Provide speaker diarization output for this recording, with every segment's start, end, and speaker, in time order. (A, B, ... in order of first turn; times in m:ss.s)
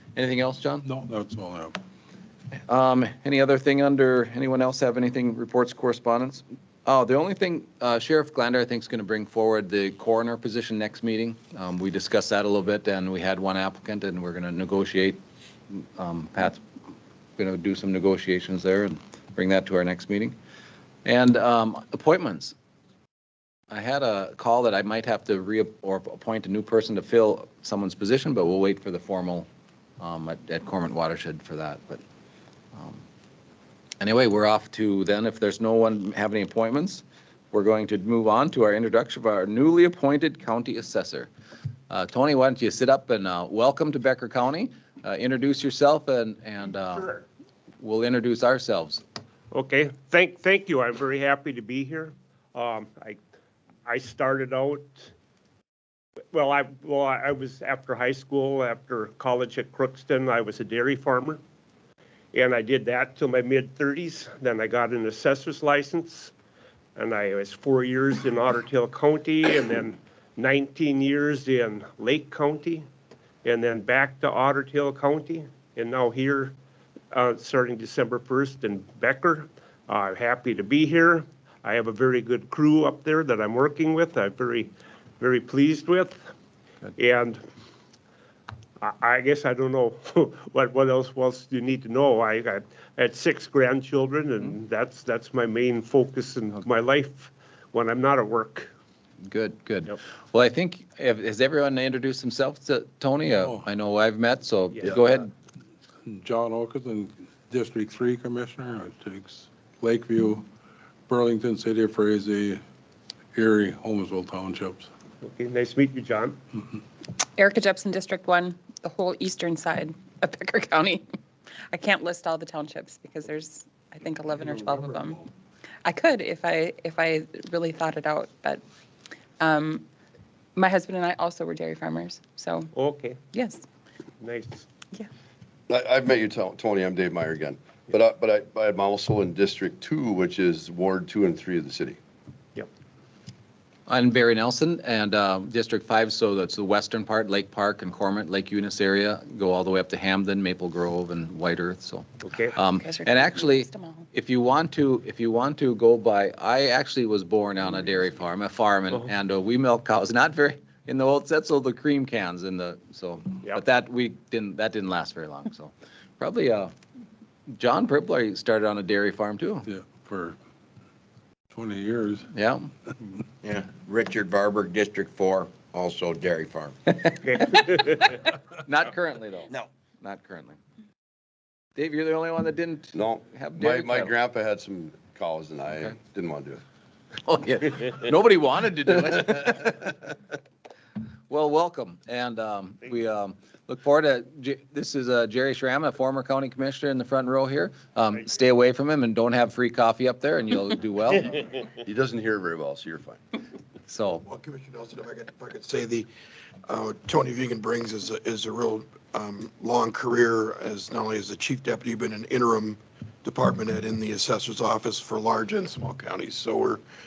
0:00.2-0:00.9 A
0:00.8-0:01.8 B
0:02.7-0:15.2 A
0:15.7-0:16.6 A
0:17.4-0:20.4 A
0:21.0-0:22.6 A
0:23.7-0:29.5 A
0:30.0-0:32.0 A
0:32.8-0:33.0 A
0:34.0-0:41.3 A
0:41.9-0:47.1 A
0:46.9-0:47.2 C
0:47.8-0:49.0 A
0:49.5-0:53.2 C
0:53.8-0:55.0 C
0:56.3-1:01.4 C
1:02.3-1:06.3 C
1:07.0-1:12.8 C
1:13.4-1:16.5 C
1:17.1-1:26.2 C
1:27.0-1:27.4 C
1:28.8-1:38.7 C
1:39.3-1:45.3 A
1:43.4-1:43.6 B
1:46.0-1:50.5 B
1:51.1-1:52.6 B
1:53.4-1:54.9 B
1:55.2-1:56.4 C
1:57.4-2:01.0 D
2:01.7-2:05.3 D
2:05.8-2:08.6 D
2:09.4-2:09.8 D
2:10.6-2:12.7 D
2:12.7-2:13.2 C
2:13.3-2:13.6 D
2:14.2-2:14.6 C
2:15.7-2:22.0 E
2:23.9-2:46.7 A
2:32.2-2:32.6 C
2:32.7-2:34.1 D
2:47.5-2:49.7 A
2:49.6-2:50.4 B
2:51.5-2:52.3 B
2:52.3-2:52.7 A
2:53.4-2:56.8 F
2:57.2-2:58.1 C
2:57.5-2:57.8 A
2:58.6-3:00.6 A
3:01.8-3:04.2 A
3:03.0-3:06.6 E
3:07.2-3:10.1 A
3:11.3-3:21.4 A
3:21.8-3:23.2 E
3:23.9-3:24.2 A
3:24.2-3:26.1 G
3:26.7-3:36.8 G